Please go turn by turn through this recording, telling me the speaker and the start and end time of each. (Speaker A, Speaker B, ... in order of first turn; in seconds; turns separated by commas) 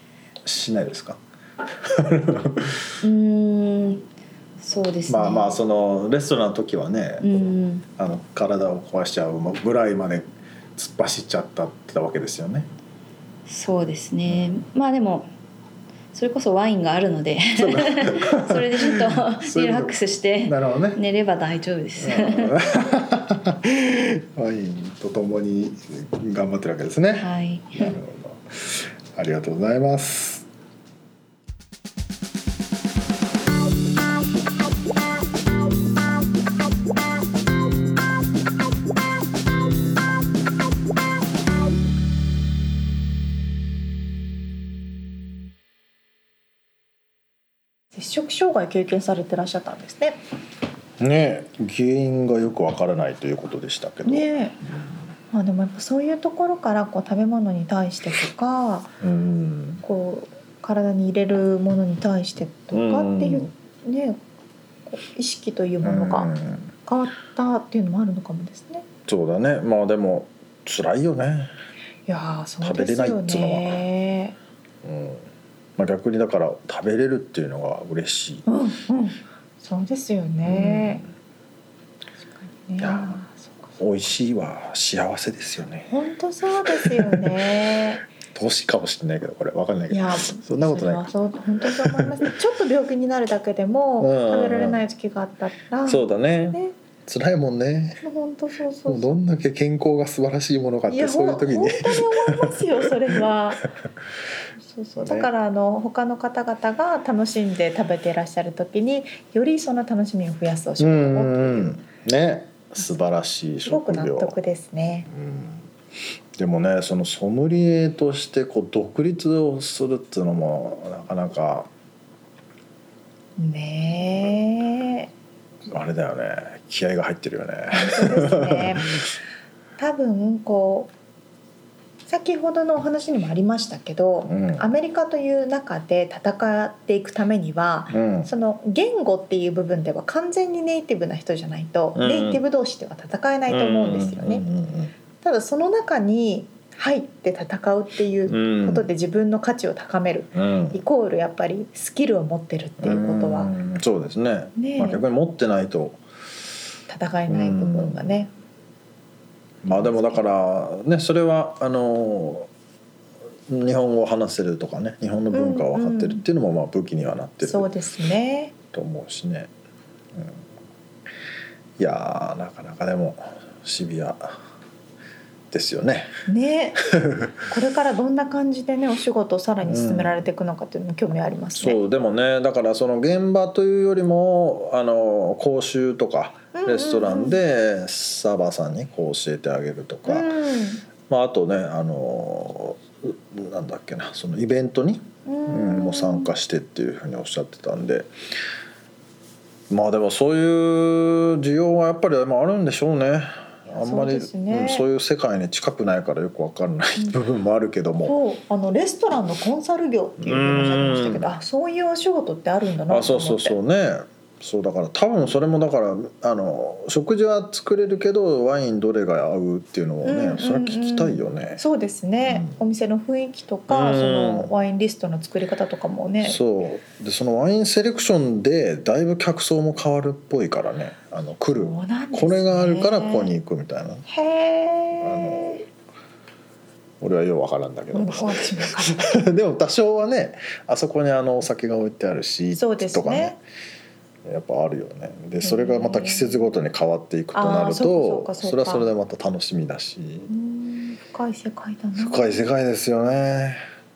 Speaker A: 0.4-1.2, Speaker A: 1.8-2.9, Speaker B: 3.0-4.1, Speaker B: 4.6-5.6, Speaker A: 5.1-7.3, Speaker B: 7.2-7.9, Speaker A: 8.0-12.7, Speaker B: 13.5-15.3, Speaker A: 14.3-14.6, Speaker B: 16.1-22.6, Speaker A: 17.6-21.0, Speaker A: 22.0-30.5, Speaker B: 27.2-28.0, Speaker C: 47.9-50.2, Speaker A: 51.0-55.0, Speaker C: 54.0-54.6, Speaker C: 55.3-59.0, Speaker A: 59.0-59.8, Speaker C: 59.8-64.2, Speaker A: 62.7-63.5, Speaker C: 64.9-66.3, Speaker A: 65.8-66.7, Speaker C: 66.9-68.9, Speaker A: 69.1-71.5, Speaker C: 72.1-74.4, Speaker A: 72.6-73.8, Speaker A: 74.8-78.5, Speaker C: 78.5-81.0, Speaker A: 80.4-81.1, Speaker C: 82.6-83.6, Speaker A: 82.8-83.2, Speaker A: 83.8-85.9, Speaker C: 85.9-88.0, Speaker A: 86.7-87.5, Speaker A: 88.3-91.1, Speaker C: 89.9-96.7, Speaker A: 91.6-92.3, Speaker A: 94.0-94.8, Speaker A: 95.8-98.0, Speaker C: 98.0-99.2, Speaker A: 98.9-103.2, Speaker C: 100.9-103.7, Speaker C: 104.6-111.7, Speaker A: 105.0-105.3, Speaker A: 110.8-114.3, Speaker C: 113.7-115.1, Speaker A: 115.1-115.7, Speaker A: 116.4-121.7, Speaker C: 123.4-125.1, Speaker A: 125.7-129.0, Speaker C: 127.7-129.0, Speaker C: 129.8-130.9, Speaker C: 132.1-144.5, Speaker A: 134.3-134.7, Speaker A: 137.9-138.3, Speaker A: 142.0-142.4, Speaker A: 143.5-144.9, Speaker C: 145.2-153.5, Speaker A: 148.3-148.9, Speaker A: 150.3-150.8, Speaker A: 152.8-156.0, Speaker C: 154.6-155.0, Speaker C: 156.9-158.3, Speaker A: 157.3-158.1, Speaker A: 159.6-162.5, Speaker C: 159.7-160.2, Speaker A: 163.5-167.7, Speaker C: 165.3-166.2, Speaker C: 167.4-168.5, Speaker A: 168.7-169.5, Speaker A: 170.1-170.4, Speaker A: 171.8-174.4, Speaker A: 175.5-176.1, Speaker C: 176.3-181.8, Speaker A: 176.9-177.4, Speaker A: 179.6-180.2, Speaker A: 181.6-190.3, Speaker C: 186.5-187.4, Speaker C: 190.1-190.8, Speaker A: 191.1-198.1, Speaker C: 195.3-196.3, Speaker A: 199.7-208.2, Speaker C: 203.7-204.8, Speaker C: 208.0-213.6, Speaker A: 210.2-211.3, Speaker A: 212.9-221.6, Speaker C: 220.0-226.4, Speaker A: 222.2-222.6, Speaker A: 223.7-224.5, Speaker A: 226.2-234.1, Speaker C: 231.6-233.3, Speaker C: 234.1-235.6, Speaker A: 235.0-235.7, Speaker A: 237.0-243.4, Speaker C: 237.9-239.3, Speaker C: 242.6-243.4, Speaker A: 244.2-250.3, Speaker C: 245.4-246.5, Speaker C: 247.3-248.9, Speaker C: 250.3-252.3, Speaker A: 252.0-253.6